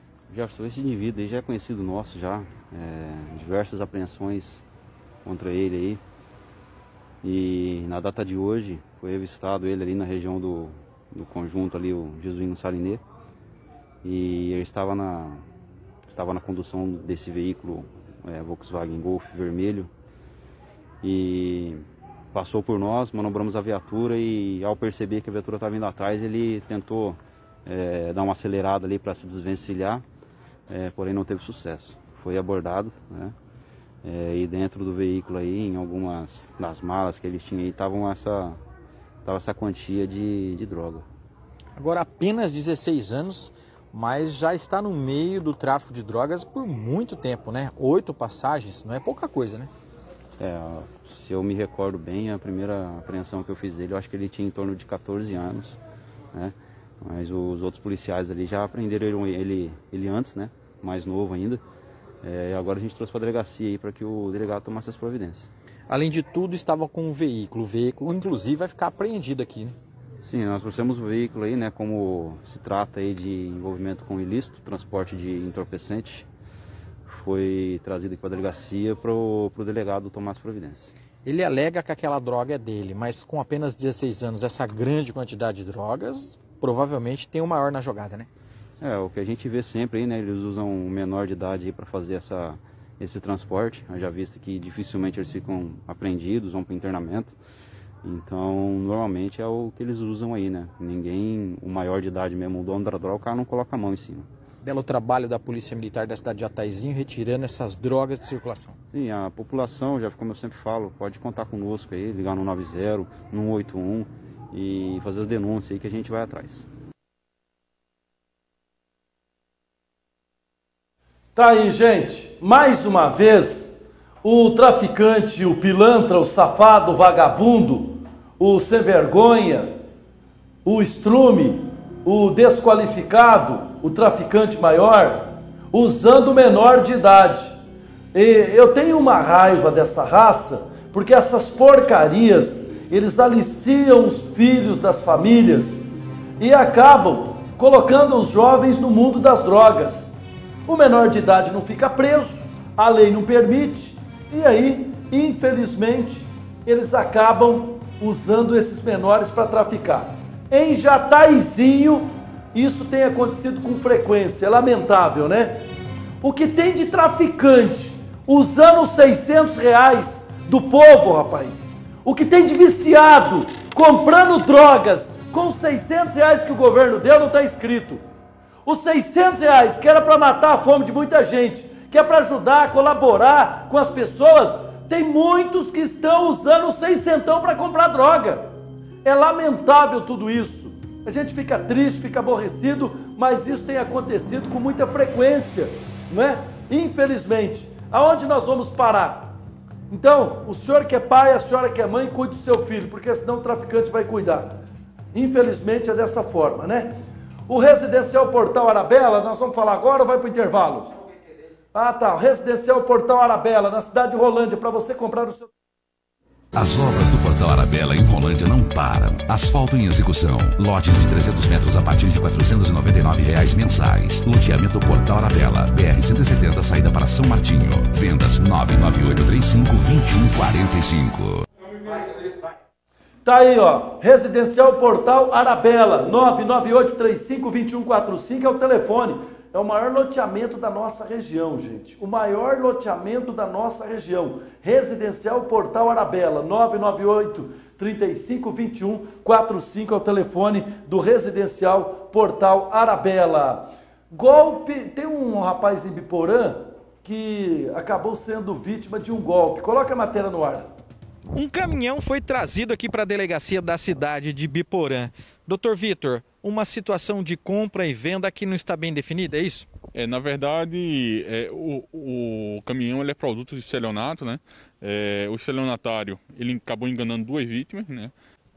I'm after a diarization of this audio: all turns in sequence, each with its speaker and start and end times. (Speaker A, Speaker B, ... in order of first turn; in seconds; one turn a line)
Speaker A: 0.3-4.6
Speaker A: 5.2-6.0
Speaker A: 7.2-13.0
Speaker A: 14.0-15.4
Speaker A: 16.1-19.9
Speaker A: 21.0-30.0
Speaker A: 30.7-33.3
Speaker A: 34.0-38.6
Speaker A: 39.2-41.0
Speaker B: 41.8-49.7
Speaker A: 50.4-55.8
Speaker A: 56.3-61.6
Speaker A: 62.2-65.5
Speaker B: 65.9-69.8
Speaker A: 70.2-76.3
Speaker A: 77.1-80.9
Speaker B: 81.2-88.3
Speaker A: 88.8-97.3
Speaker A: 98.0-104.3
Speaker B: 104.6-108.8
Speaker A: 108.9-116.6
Speaker C: 121.3-129.7
Speaker C: 130.6-137.6
Speaker C: 138.1-145.9
Speaker C: 146.4-165.6
Speaker C: 166.2-178.0
Speaker C: 178.6-188.5
Speaker C: 189.0-199.4
Speaker C: 199.9-204.6
Speaker C: 205.1-206.9
Speaker C: 207.5-210.9
Speaker C: 211.7-215.5
Speaker D: 216.5-231.4
Speaker C: 233.2-260.7
Speaker E: 261.3-269.7
Speaker F: 269.9-278.1